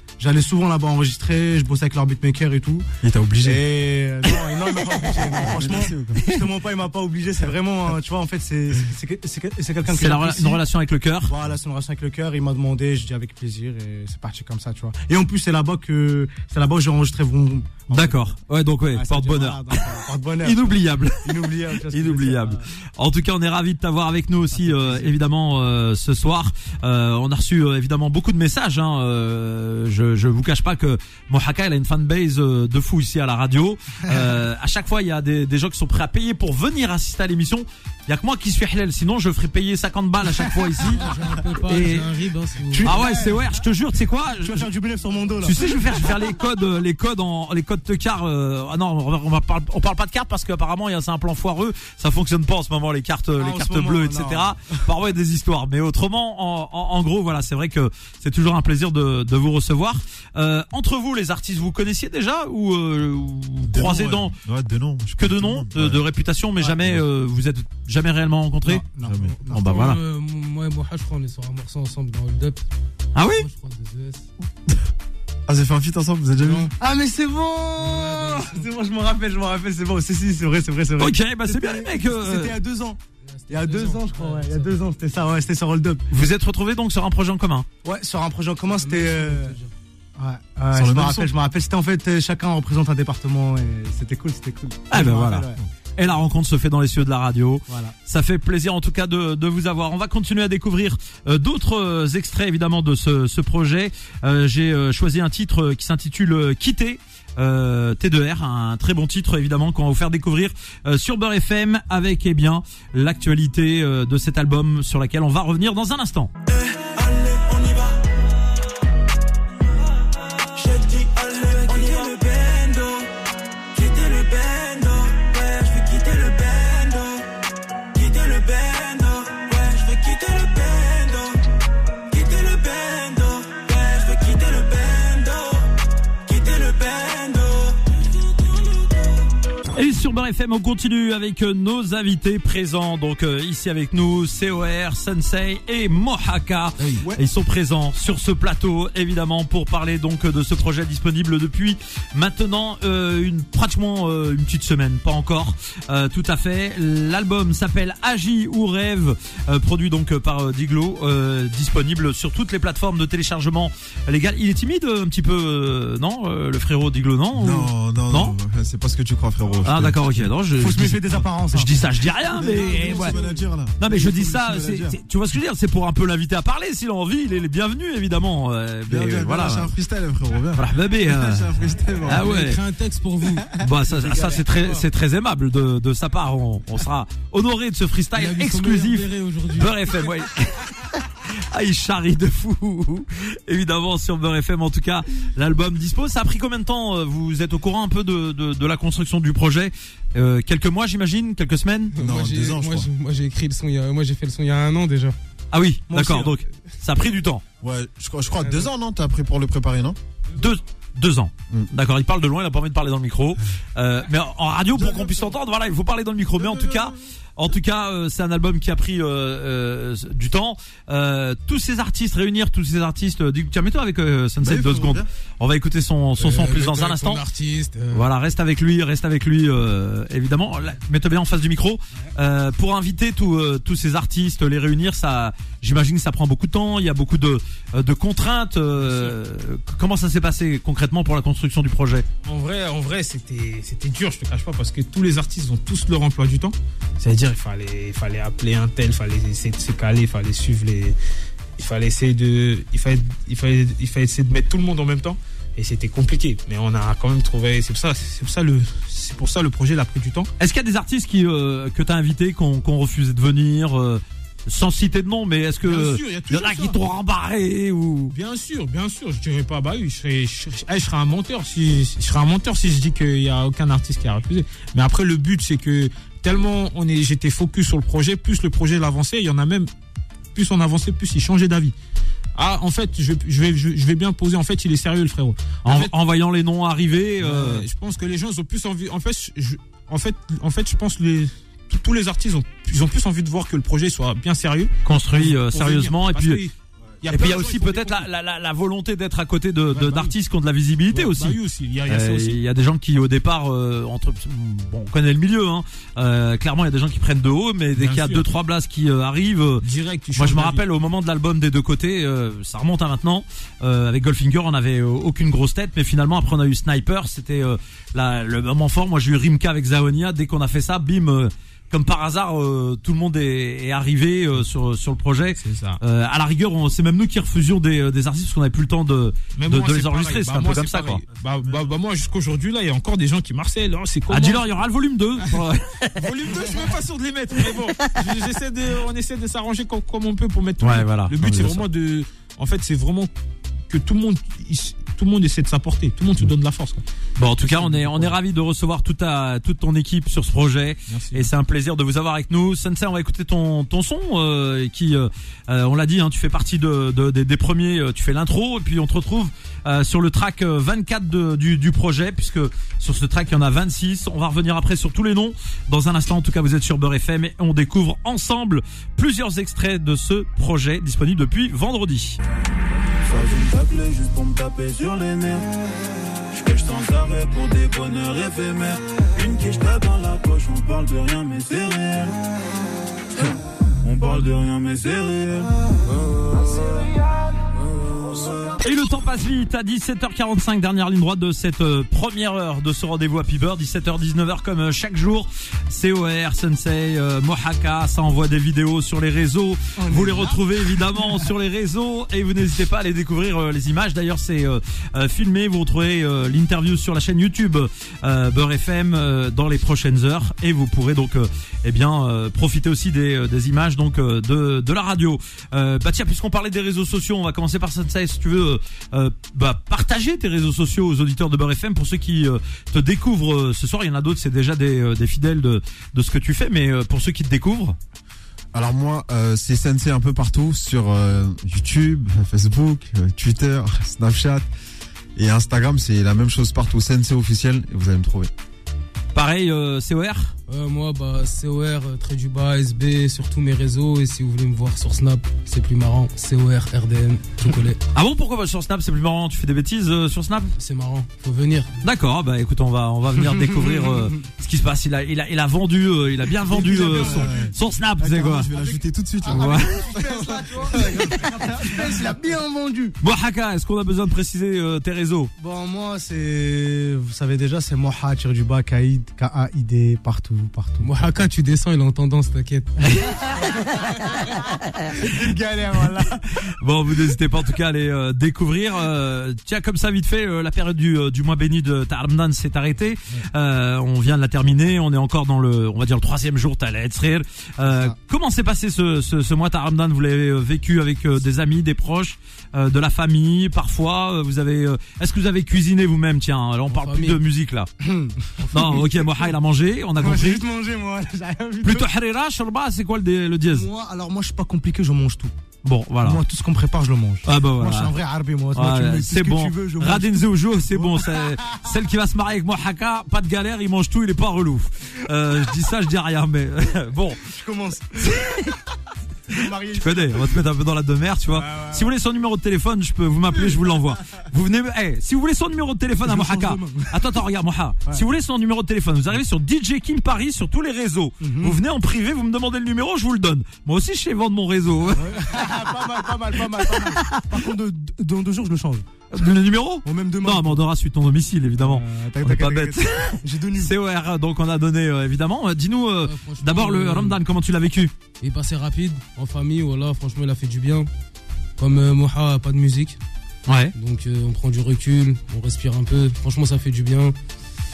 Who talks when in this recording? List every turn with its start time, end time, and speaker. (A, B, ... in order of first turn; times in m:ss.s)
0:00.2-0:02.9 A
0:03.0-0:03.6 B
0:03.4-0:10.6 A
0:05.3-0:06.4 B
0:09.9-0:11.3 C
0:11.3-0:18.4 A
0:17.9-0:19.9 C
0:18.9-0:22.6 A
0:20.4-0:41.0 C
0:24.5-0:25.2 A
0:40.9-0:43.0 D
0:41.7-0:42.1 C
0:42.7-0:43.6 A
0:42.8-0:44.7 C
0:44.4-0:46.3 A
0:45.4-1:04.4 C
0:53.4-0:54.8 A
1:03.7-1:06.0 B
1:05.2-1:08.8 C
1:06.6-1:07.0 A
1:08.6-1:09.9 A
1:09.0-1:09.4 B
1:09.5-1:10.0 C
1:09.5-1:12.6 D
1:13.2-1:13.5 C
1:13.3-1:14.3 D
1:15.5-1:16.7 B
1:16.4-1:16.7 D
1:16.8-1:23.0 A
1:17.8-1:18.7 D
1:21.0-1:22.6 C
1:23.3-1:24.8 D
1:23.5-1:26.0 A
1:26.1-1:27.7 C
1:27.8-1:29.6 A
1:28.7-1:29.7 D
1:30.2-1:35.6 A
1:30.7-1:31.3 B
1:34.9-1:56.3 C
1:37.7-1:37.9 A
1:56.7-1:58.0 E
2:00.6-2:03.1 E
2:03.7-2:07.2 E
2:08.0-2:11.4 E
2:12.1-2:15.6 E
2:16.3-2:17.8 E
2:19.7-2:48.4 C
2:26.8-2:27.0 D
2:47.3-2:50.2 B
2:49.6-2:53.2 C
2:50.6-2:52.1 A
2:52.2-2:55.0 B
2:52.8-2:53.1 A
2:53.8-2:59.7 C
2:58.9-3:02.3 B
3:00.6-3:01.5 C
3:02.0-3:02.6 C
3:02.1-3:03.6 D
3:03.6-3:22.0 C
3:03.9-3:04.8 A
3:08.2-3:09.9 D
3:22.0-3:25.2 D
3:22.0-3:22.9 B
3:25.5-3:27.4 C
3:25.9-3:26.4 A
3:27.6-3:30.0 B
3:30.4-3:47.2 C
3:34.8-3:35.2 B
3:36.4-3:37.0 B
3:44.4-3:45.1 B
3:46.2-3:48.1 D
3:47.9-4:02.1 C
3:58.9-3:59.1 F
4:02.2-4:11.0 F
4:11.6-4:20.3 F
4:20.4-4:28.2 C
4:25.6-4:26.8 F
4:28.1-4:39.7 F
4:40.4-4:41.8 F
4:42.4-4:45.9 F
4:45.6-4:47.6 C
4:47.2-4:58.1 F
4:54.8-4:56.4 C
4:57.1-5:09.6 C
4:59.7-5:00.1 F
5:00.9-5:02.4 F
5:07.8-5:08.3 F
5:09.6-5:10.6 F
5:10.2-5:31.0 C
5:25.4-5:25.8 F
5:29.4-5:34.5 F
5:34.1-5:36.5 C
5:36.0-5:43.1 F
5:40.6-5:41.6 C
5:43.7-5:46.8 F
5:47.2-6:12.2 C
5:47.4-5:48.2 F
5:50.9-5:51.3 F
6:13.0-6:15.5 E
6:16.3-6:22.2 E
6:23.2-6:25.5 E
6:26.2-6:27.1 E
6:28.1-6:28.5 E
6:28.6-7:07.8 C
6:39.8-6:40.4 A
7:08.5-7:14.5 B
7:15.2-7:18.3 B
7:19.1-7:20.3 C
7:20.5-7:27.8 D
7:27.9-7:30.5 C
7:30.6-7:31.8 D
7:31.8-7:38.5 C
7:33.4-7:34.1 A
7:36.5-7:41.4 B
7:36.5-7:37.4 A
7:38.4-7:43.0 A
7:39.3-7:39.9 C
7:43.0-7:45.3 C
7:45.4-7:51.1 A
7:50.8-7:52.8 D
7:52.8-7:56.5 A
7:56.6-8:17.7 C
8:07.7-8:07.9 A
8:16.7-8:17.2 D
8:17.8-8:19.1 A
8:18.5-8:20.4 C
8:20.0-8:21.9 A
8:21.6-8:23.7 C
8:23.5-8:25.3 A
8:25.6-8:26.2 C
8:26.0-8:31.7 A
8:27.2-8:27.9 C
8:28.5-8:37.2 C
8:37.2-8:38.6 A
8:38.0-8:38.5 C
8:39.3-8:40.4 A
8:39.8-8:55.2 C
8:41.3-8:41.9 A
8:46.0-8:47.1 A
8:51.2-8:51.6 A
8:54.9-8:58.9 A
8:56.7-8:57.2 C
8:59.1-9:07.9 C
8:59.8-9:00.6 A
9:01.6-9:03.7 A
9:06.0-9:07.2 D
9:08.2-9:10.9 D
9:11.6-9:13.0 D
9:13.5-9:13.7 C
9:13.8-9:17.1 D